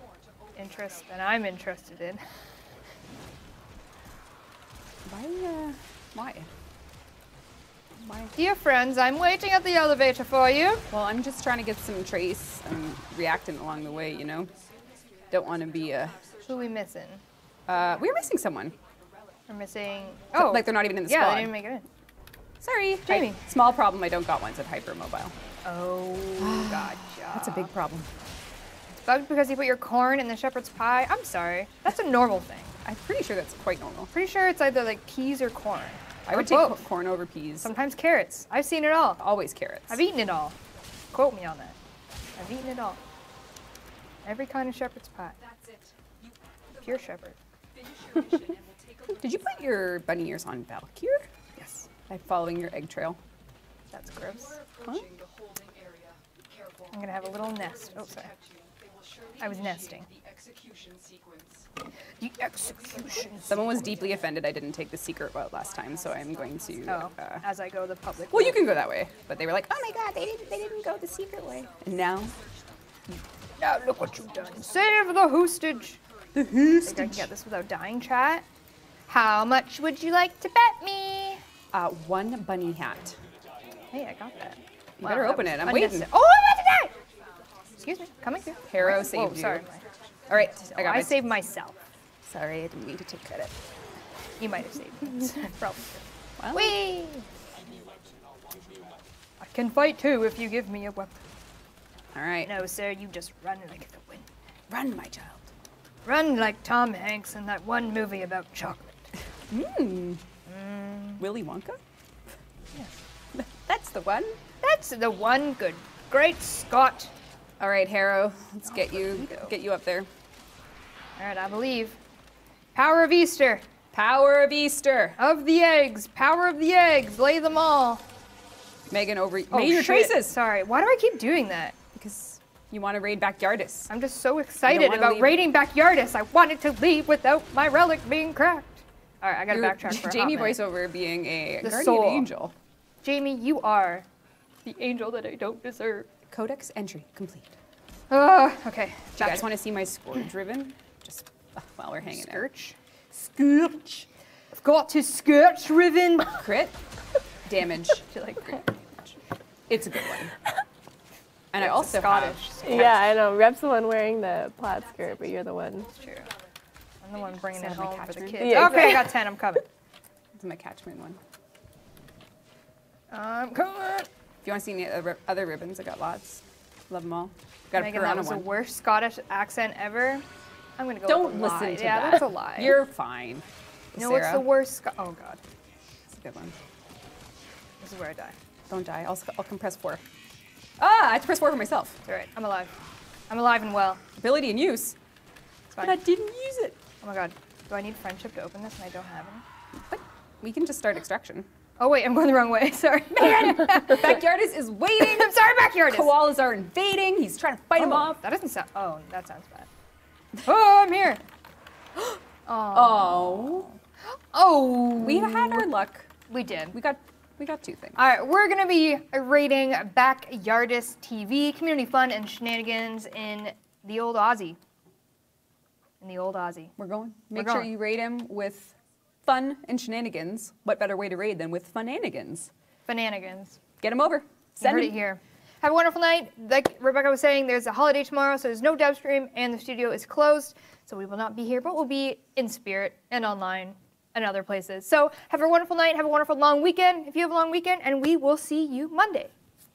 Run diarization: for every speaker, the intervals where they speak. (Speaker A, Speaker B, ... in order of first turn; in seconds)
Speaker A: 0.5-2.2, 8.3-10.9, 16.4-17.2, 19.5-21.9, 23.1-23.4, 25.6-27.7, 29.0-32.7, 34.1-36.8, 37.6-39.2, 39.9-40.5, 41.1-41.7, 42.3-43.0, 44.2-45.4, 46.7-47.4, 51.5-51.9, 53.9-54.6, 56.9-58.3, 59.4-60.1, 62.2-63.9, 66.8-68.7, 73.6-76.0, 76.8-78.4, 79.1-81.4, 83.9-87.0, 87.7-91.8, 94.4-97.2, 99.4-101.2, 102.4-104.2, 106.0-109.1, 110.5-111.2, 114.6-117.1, 118.6-119.5, 121.2-122.0, 122.7-123.6, 125.2-128.0, 129.5-131.7, 133.9-140.6, 141.6-142.3, 143.0-144.0, 144.6-146.1, 148.1-149.5, 152.0-156.4, 158.1-158.7, 161.6-163.0, 165.9-166.3, 167.0-169.6, 173.1-174.1, 177.7-180.2, 180.8-182.8, 184.0-185.4, 187.8-188.3, 192.1-192.7, 193.3-194.0, 195.7-196.0, 197.0-199.4, 201.8-204.2, 205.0-206.1, 207.8-209.7, 210.4-211.2, 211.9-215.7, 216.3-216.8, 217.9-224.6, 226.0-226.7, 227.3-227.7, 232.9-233.6, 234.6-249.3
Speaker B: 5.0-6.5, 8.0-8.3, 10.9-14.5, 15.3-16.3, 17.6-18.8, 20.3-21.6, 22.6-25.3, 26.4-28.1, 32.8-34.1, 36.2-37.7, 39.2-40.0, 48.1-48.4, 49.1-51.2, 52.1-53.2, 54.6-55.2, 60.6-61.4, 63.5-67.4, 68.3-72.3, 76.3-77.3, 81.7-83.2, 85.0-86.1, 88.5-89.7, 90.3-91.4, 92.2-93.6, 96.4-96.9, 102.1-102.5, 104.7-105.5, 109.5-110.2, 111.2-111.8, 113.3-114.4, 117.6-120.1, 123.9-125.2, 128.9-130.4, 131.9-133.9, 134.7-135.5, 139.5-142.5, 146.3-147.6, 149.2-152.5, 153.4-154.0, 156.3-156.8, 157.4-159.2, 159.7-160.3, 161.5-162.9, 167.4-169.0, 170.3-171.2, 174.4-178.5, 181.1-184.5, 186.1-186.6, 188.7-190.0, 190.8-192.0, 194.2-195.0, 195.8-196.8, 199.9-201.5, 203.1-208.2, 212.7-213.7, 215.0-216.1, 216.7-218.0, 226.8-232.5, 233.8-235.0
Speaker C: 162.6-165.9, 168.4-169.2